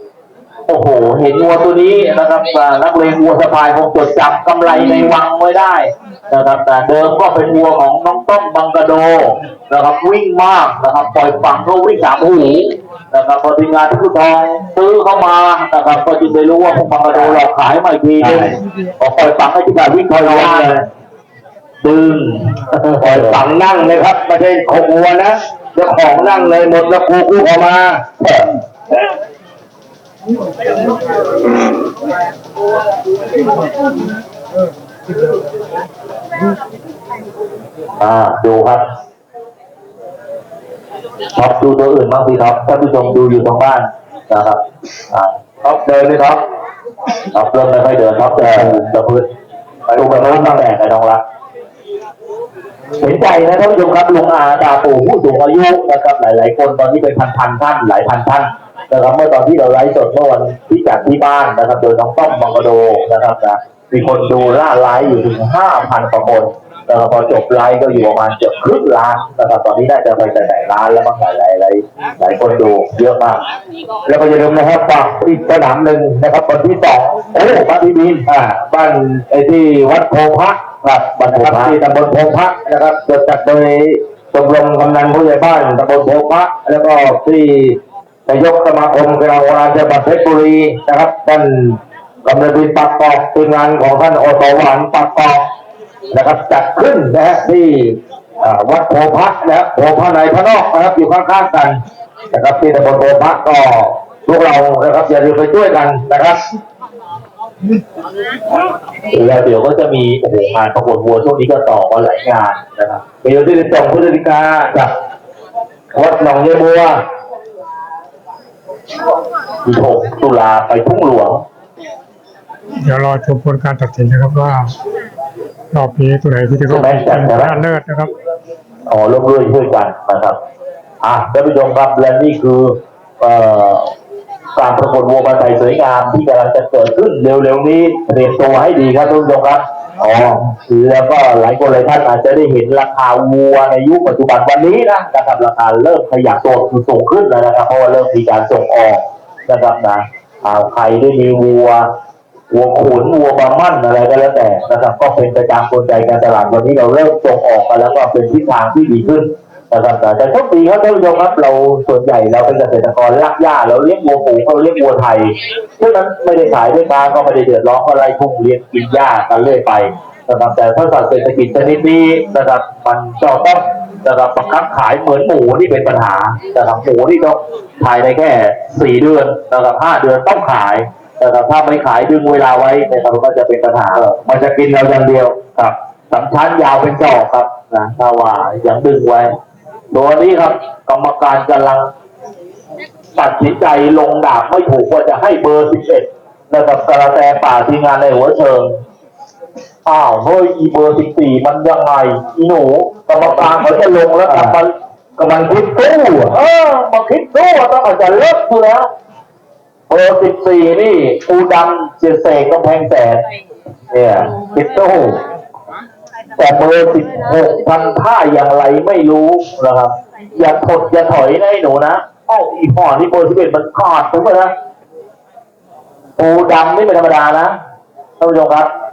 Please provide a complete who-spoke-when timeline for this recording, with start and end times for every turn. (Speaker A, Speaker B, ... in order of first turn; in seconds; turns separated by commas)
Speaker A: 0.7-20.8, Speaker B: 17.1-17.4, Speaker B: 18.2-18.6, Speaker B: 20.1-20.8, Speaker A: 21.8-23.4, Speaker B: 22.9-28.0, Speaker A: 28.2-28.5, Speaker A: 38.0-38.8, Speaker A: 41.3-44.6, Speaker A: 45.1-46.4, Speaker A: 47.3-49.3, Speaker B: 49.9-50.6, Speaker A: 49.9-51.2, Speaker A: 53.0-73.4, Speaker B: 74.0-77.2, Speaker A: 77.3-78.2, Speaker B: 78.2-95.5, Speaker A: 81.3-81.8, Speaker B: 96.1-101.8, Speaker B: 102.3-106.4, Speaker A: 109.1-113.0, Speaker B: 113.2-114.8, Speaker B: 115.9-117.0, Speaker A: 119.6-121.4, Speaker C: 122.8-124.7, Speaker C: 125.7-128.1, Speaker A: 126.7-127.6, Speaker A: 128.9-130.4, Speaker A: 131.0-133.9, Speaker A: 134.5-151.8, Speaker A: 152.5-184.1, Speaker B: 184.0-185.4, Speaker A: 185.5-189.3, Speaker A: 189.9-191.9, Speaker A: 193.2-198.7, Speaker A: 199.8-204.7, Speaker B: 203.2-204.6, Speaker B: 205.2-206.4, Speaker A: 206.2-208.9, Speaker A: 209.9-213.2, Speaker A: 213.9-214.3, Speaker B: 214.3-215.2, Speaker A: 216.4-224.5, Speaker A: 226.2-227.5, Speaker A: 228.2-228.7